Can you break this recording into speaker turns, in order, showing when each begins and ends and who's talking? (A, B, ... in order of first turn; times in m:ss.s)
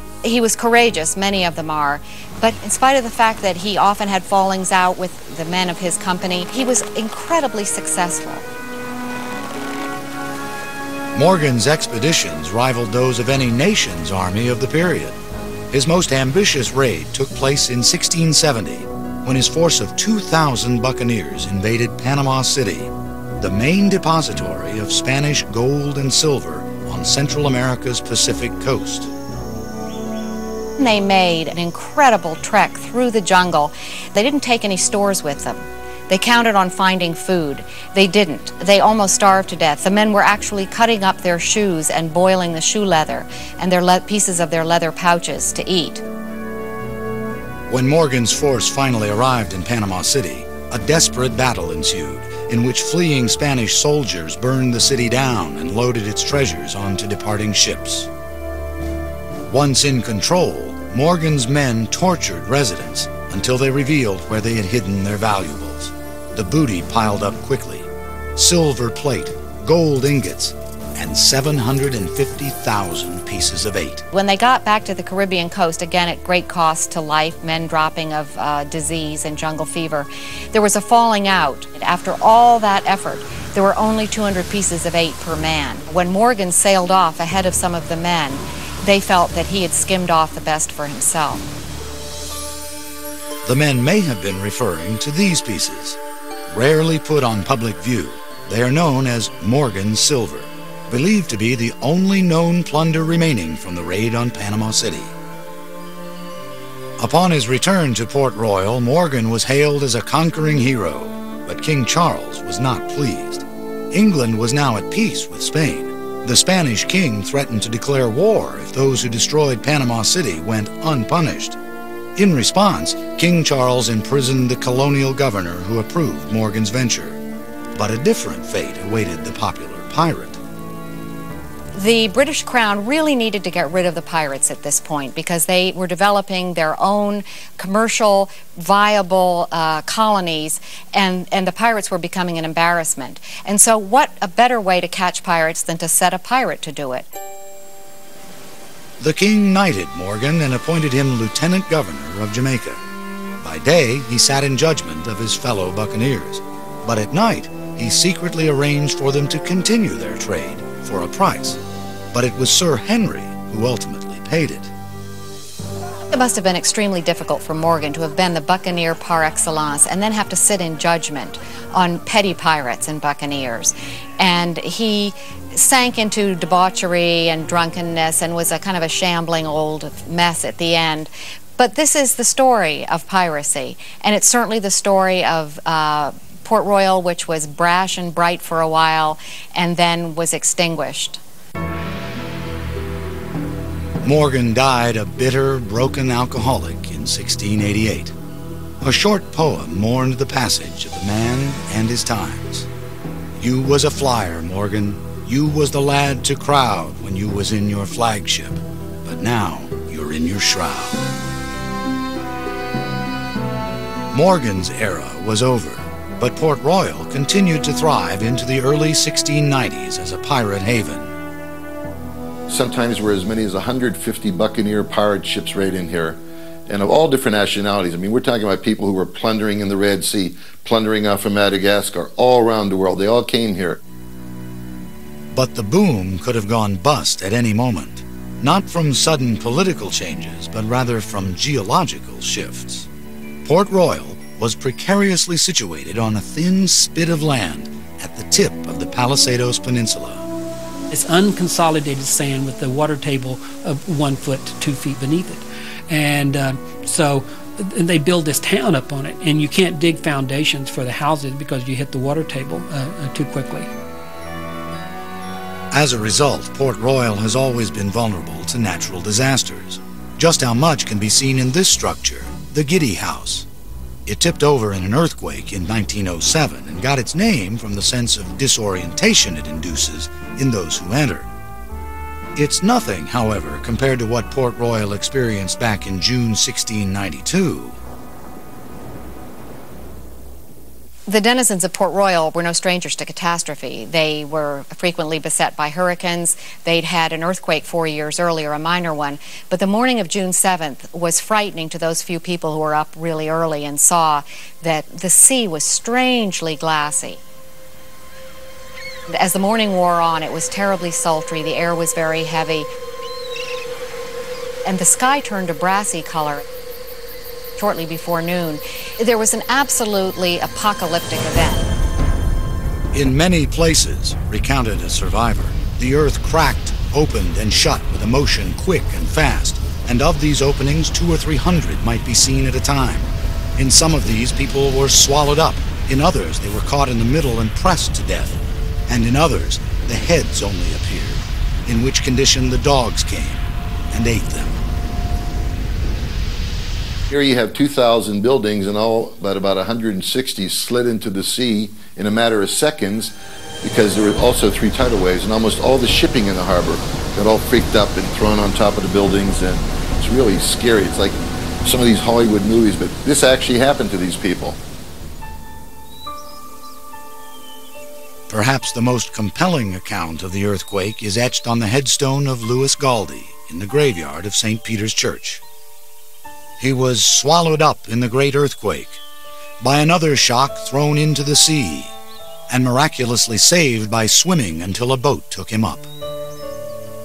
0:00.2-0:08.4 A
0:11.1-0:15.2 B
0:15.7-0:29.1 B
0:30.8-0:46.0 A
0:47.7-0:58.1 B
0:59.5-1:14.0 B
1:14.1-1:31.5 A
1:33.4-1:45.2 B
1:47.0-2:01.6 B
2:02.2-2:07.2 B
2:07.8-2:10.4 B
2:11.8-2:27.1 A
2:29.0-2:32.8 B
2:33.4-2:41.6 B
2:42.1-2:44.7 B
2:46.1-3:11.2 A
3:14.0-3:18.2 B
3:18.8-3:22.7 B
3:23.4-3:31.0 B
3:34.1-3:41.1 B
3:42.5-3:53.8 C
3:55.3-4:02.9 B
4:03.4-4:10.3 B
4:10.9-4:23.7 D
4:25.7-4:33.5 B
4:34.1-4:41.3 B
4:42.4-4:47.8 B
4:51.1-5:07.2 A
5:09.1-5:12.7 A
5:14.6-5:16.4 A
5:17.6-5:21.7 A
5:22.9-5:44.6 B
5:47.1-6:04.6 C
6:08.3-6:15.4 B
6:16.6-6:19.0 B
6:19.6-6:21.9 B
6:22.5-6:25.9 B